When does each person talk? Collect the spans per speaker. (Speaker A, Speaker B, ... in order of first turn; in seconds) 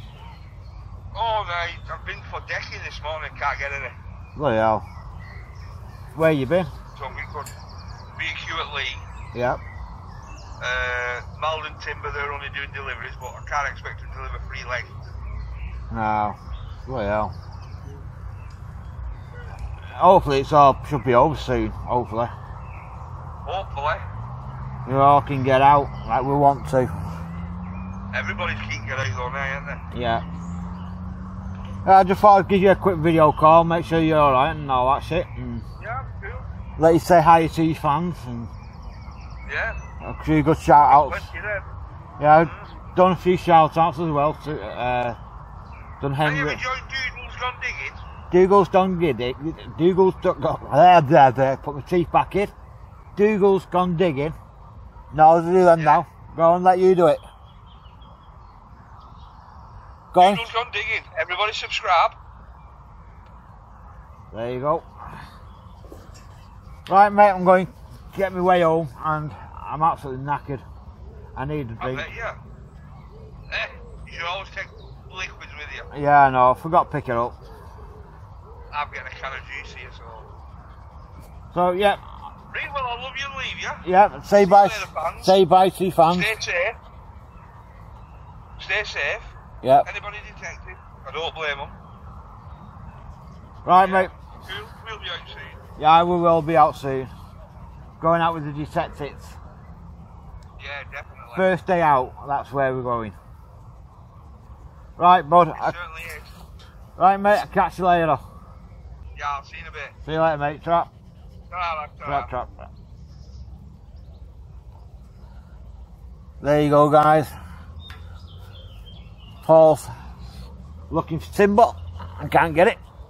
Speaker A: 1.1-4.0, 7.0-7.5, 8.2-9.0, 10.6-15.0, 23.4-24.0, 28.1-29.8, 35.8-36.5, 39.5-39.8, 40.9-41.6, 46.2-48.0, 60.2-62.2, 71.8-72.4, 73.5-75.9, 78.7-80.3, 82.5-83.8, 84.4-85.3, 86.1-86.8, 88.6-89.3, 89.8-91.7, 93.8-95.6, 100.6-101.5, 105.5-106.3, 109.2-109.9, 111.5-112.3
Speaker B: 4.3-4.8, 6.1-6.7, 9.3-9.6, 15.9-17.3, 20.0-22.3, 24.9-26.9, 29.9-30.2, 31.8-35.6, 36.8-38.5, 40.0-41.3, 42.2-45.2, 46.0-46.6, 48.3-52.5, 53.1-54.4, 55.1-57.2, 60.1-60.5, 64.3-64.9, 66.9-70.6, 71.3-72.1, 75.9-77.4, 81.5-82.0, 83.8-86.3, 89.6-89.9, 93.6-94.1, 95.8-97.1, 98.0-99.4, 101.3-103.2, 105.0-105.8, 107.0-108.2, 110.0-110.9, 112.0-112.7, 116.4-117.3, 119.4-119.9, 120.9-122.8